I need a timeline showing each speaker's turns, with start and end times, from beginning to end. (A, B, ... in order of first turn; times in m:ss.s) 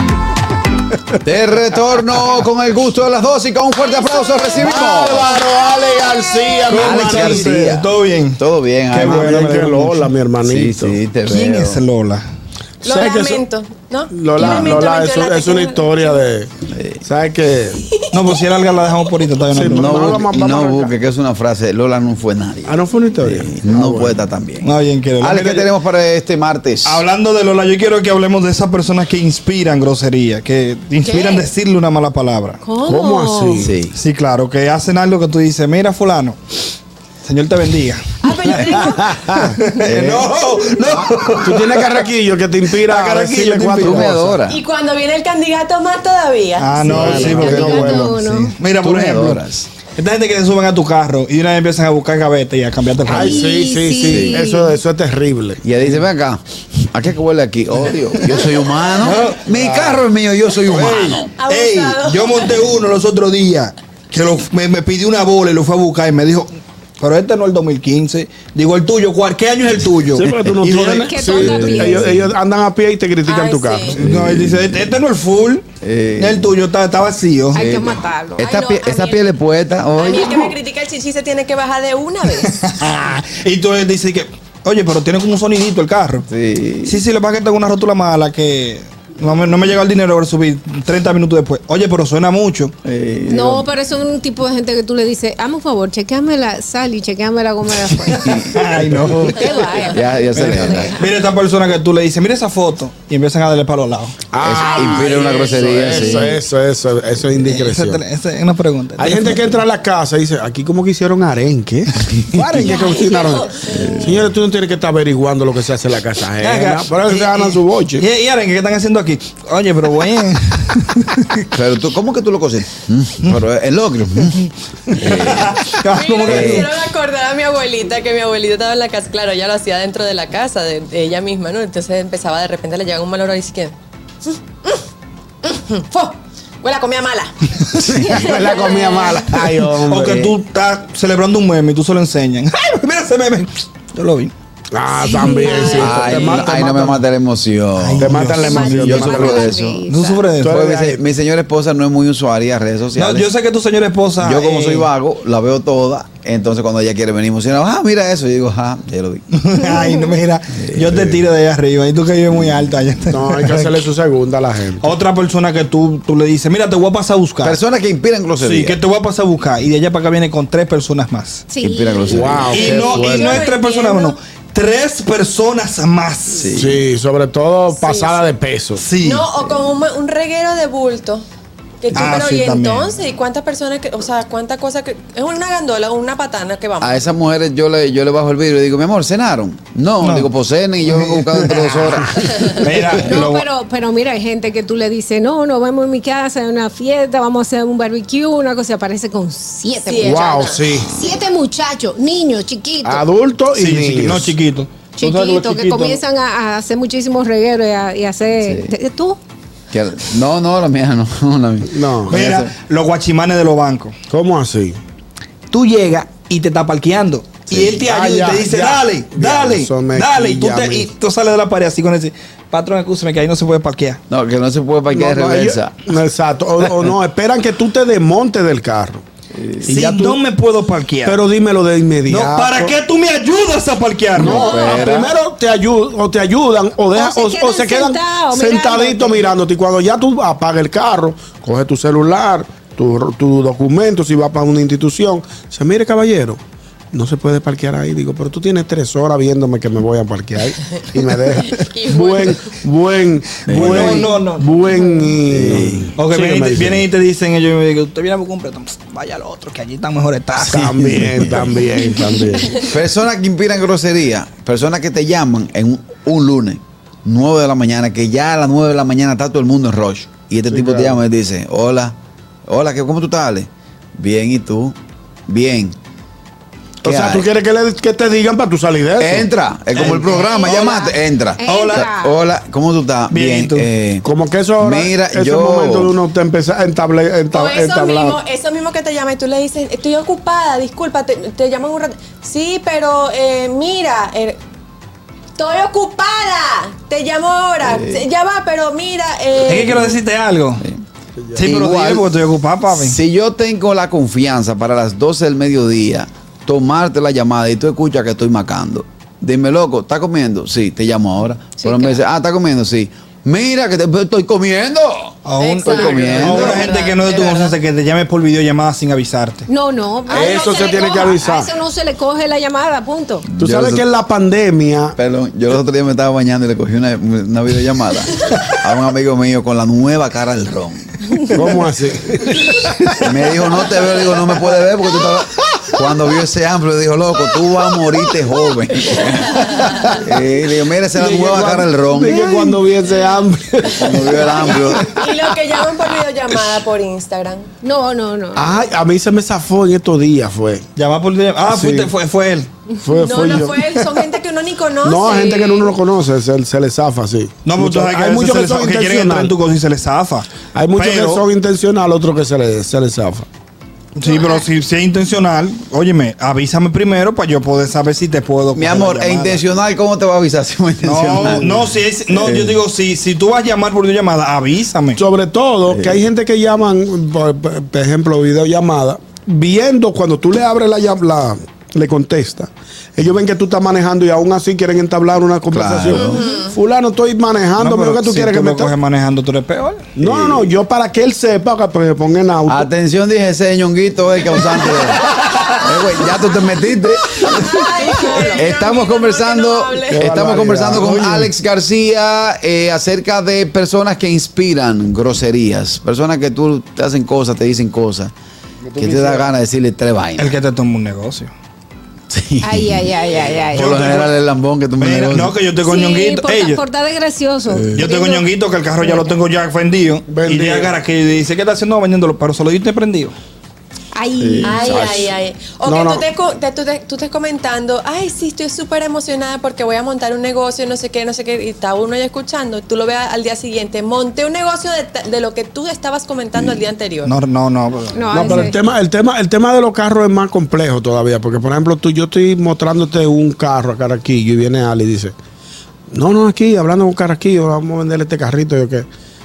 0:01.2-0:05.4 A
0:03.8-0:04.6 B
0:04.6-0:07.6 C
0:05.5-0:06.6 B
0:06.7-0:08.4 D
0:06.7-0:09.4 A
0:08.9-0:10.1 D
0:08.9-0:11.0 C
0:10.4-0:11.8 A
0:11.2-0:12.2 D
0:12.8-0:16.2 B
0:12.8-0:13.4 C
0:14.1-0:16.5 C
0:14.4-0:14.7 A
0:16.7-0:17.0 A
0:17.0-0:17.8 C
0:18.1-0:20.2 D
0:19.5-0:20.9 C
0:19.6-0:24.7 A
0:22.7-0:24.2 C
0:24.6-0:25.7 D
0:25.2-0:27.0 A
0:26.8-0:32.6 D
0:31.0-0:31.4 E
0:32.6-0:33.7 E
0:32.8-0:33.7 C
0:33.6-0:34.0 A
0:33.9-0:36.4 D
0:37.2-0:42.0 D
0:38.2-0:39.2 B
0:38.9-0:39.5 C
0:39.8-0:40.3 A
0:41.4-0:44.4 C
0:42.8-0:44.1 D
0:43.8-0:44.6 A
0:44.4-0:46.9 B
0:46.6-0:53.5 D
0:46.8-0:48.5 E
0:46.8-0:48.1 C
0:46.9-0:47.7 A
0:48.7-0:49.7 A
0:53.0-0:55.6 C
0:53.1-0:54.7 E
0:54.0-0:54.4 A
0:55.6-1:01.3 A
0:59.0-1:00.0 D
0:59.0-0:59.3 B
1:00.7-1:12.0 D
1:01.4-1:02.7 B
1:10.1-1:14.0 C
1:11.0-1:12.1 E
1:13.2-1:14.0 B
1:13.9-1:15.7 D
1:14.0-1:14.8 A
1:15.8-1:16.5 A
1:16.2-1:17.7 D
1:17.5-1:18.5 E
1:17.5-1:20.5 A
1:18.4-1:19.4 B
1:19.9-1:22.6 B
1:22.4-1:26.3 D
1:26.3-1:27.0 A
1:26.8-1:32.7 D
1:32.8-1:33.7 A
1:33.3-1:38.5 E
1:38.0-1:40.9 A
1:38.5-1:39.5 D
1:39.2-1:41.1 E
1:40.3-1:44.2 D
1:44.3-1:48.0 C
1:44.4-1:46.4 A
1:44.5-1:46.3 E
1:47.4-1:49.6 D
1:49.0-1:58.0 C
1:52.4-1:52.8 D
1:52.6-1:54.0 B
1:53.7-1:54.3 A
1:56.4-2:01.4 D
2:01.5-2:04.5 A
2:05.0-2:05.6 A
2:05.1-2:06.7 D
2:05.8-2:14.8 B
2:06.2-2:06.7 A
2:15.4-2:19.2 B
2:17.7-2:20.3 C
2:19.8-2:24.3 D
2:24.7-2:27.0 C
2:24.9-2:26.3 E
2:25.0-2:26.3 B
2:25.7-2:29.8 A
2:27.8-2:29.2 D
2:28.0-2:29.4 C
2:28.4-2:30.2 E
2:29.9-2:30.6 D
2:30.4-2:31.0 C
2:30.4-2:33.3 A
2:32.9-2:34.9 D
2:34.2-2:39.2 A
2:39.3-2:43.8 D
2:39.7-2:40.0 E
2:40.5-2:41.2 A
2:43.1-2:44.9 C
2:44.8-2:47.6 D
2:47.4-2:48.8 A
2:48.4-2:51.4 D
2:51.5-2:52.4 E
2:51.6-2:52.7 A
2:52.1-2:53.4 C
2:52.5-2:56.5 D
2:52.7-2:54.2 B
2:56.3-2:56.8 A
2:56.5-2:58.9 C
2:57.7-2:58.2 B
2:58.8-2:59.2 D
2:59.0-3:01.2 B
3:01.8-3:07.1 B
3:01.9-3:02.9 D
3:06.8-3:12.5 A
3:10.0-3:10.3 D
3:10.8-3:13.4 D
3:12.4-3:12.7 B
3:13.0-3:23.0 E
3:19.8-3:20.7 B
3:20.0-3:20.9 C
3:22.8-3:24.4 C
3:23.5-3:26.0 D
3:25.0-3:29.2 E
3:28.4-3:28.7 A
3:29.7-3:32.5 A
3:31.7-3:32.2 C
3:32.1-3:33.9 D
3:34.1-3:34.8 C
3:35.5-3:44.0 D
3:37.5-3:37.8 A
3:37.7-3:40.9 C
3:44.1-3:45.8 A
3:44.9-3:49.0 C
3:49.3-3:49.7 A
3:49.6-3:50.2 C
3:49.6-3:51.2 D
3:51.0-3:52.8 C
3:52.1-3:54.4 D
3:54.2-4:06.4 C
3:54.2-3:55.1 A
3:54.2-3:54.9 E
3:56.9-3:59.2 E
4:06.9-4:16.9 C
4:11.3-4:12.5 B
4:13.5-4:14.0 A
4:13.5-4:14.5 D
4:15.3-4:15.9 A
4:16.0-4:21.5 D
4:20.4-4:22.6 C
4:21.2-4:21.6 A
4:22.6-4:32.0 A
4:30.5-4:31.0 C
4:32.5-4:34.8 A
4:35.3-4:35.7 A
4:36.8-4:40.2 C
4:36.8-4:37.3 A
4:39.0-4:44.0 A
4:39.7-4:40.2 D
4:40.2-4:40.9 B
4:40.5-4:40.9 E
4:41.4-4:42.2 E
4:41.4-4:41.9 D
4:43.1-4:43.7 D
4:44.0-4:48.2 C
4:44.6-4:45.9 A
4:47.3-4:54.4 B
4:55.4-5:00.0 B
4:57.6-4:58.1 A
4:59.4-5:00.6 D
5:01.2-5:01.5 C
5:01.3-5:03.0 D
5:01.4-5:02.1 A
5:02.7-5:16.8 A
5:11.6-5:12.0 E
5:15.2-5:19.5 D
5:15.4-5:17.6 B
5:19.5-5:23.2 E
5:20.1-5:21.0 B
5:20.1-5:21.5 C
5:23.3-5:23.8 A
5:23.4-5:25.0 C
5:25.0-5:31.0 A
5:31.3-5:32.6 C
5:33.0-5:42.6 A
5:40.9-5:44.8 C
5:43.7-5:45.0 A
5:44.4-5:47.5 B
5:47.6-5:48.6 E
5:48.4-5:50.6 C
5:50.8-5:52.5 D
5:51.4-5:51.9 C
5:52.8-5:53.6 C
5:52.9-5:55.7 B
5:54.8-5:59.3 C
5:57.4-6:01.2 D
6:00.5-6:03.2 C
6:03.9-6:09.4 D
6:04.0-6:04.4 E
6:08.5-6:11.5 A
6:10.8-6:15.0 D
6:11.2-6:11.7 C
6:12.2-6:12.6 A
6:15.0-6:28.7 C
6:15.7-6:16.0 A
6:25.5-6:26.3 A
6:25.9-6:26.5 B
6:27.6-6:29.8 D
6:30.0-6:32.7 C
6:30.0-6:30.5 A
6:32.5-6:37.5 A
6:35.1-6:35.4 C
6:37.2-6:40.1 B
6:38.3-6:48.1 A
6:39.9-6:41.3 C
6:48.6-6:49.3 C
6:48.8-6:50.3 A
6:50.2-6:51.3 D
6:52.1-6:55.3 A
6:52.4-6:53.9 E
6:53.5-6:54.2 D
6:54.8-6:56.6 D
6:55.6-6:58.3 E
6:57.5-6:57.8 C
6:57.7-7:03.1 D
6:58.8-6:59.1 E
7:00.1-7:00.8 C
7:03.9-7:04.7 E
7:04.2-7:04.7 A
7:04.4-7:17.1 B
7:04.6-7:05.1 C
7:05.6-7:06.0 C
7:17.0-7:18.4 D
7:17.9-7:18.6 E
7:18.1-7:25.1 C
7:25.9-7:28.9 C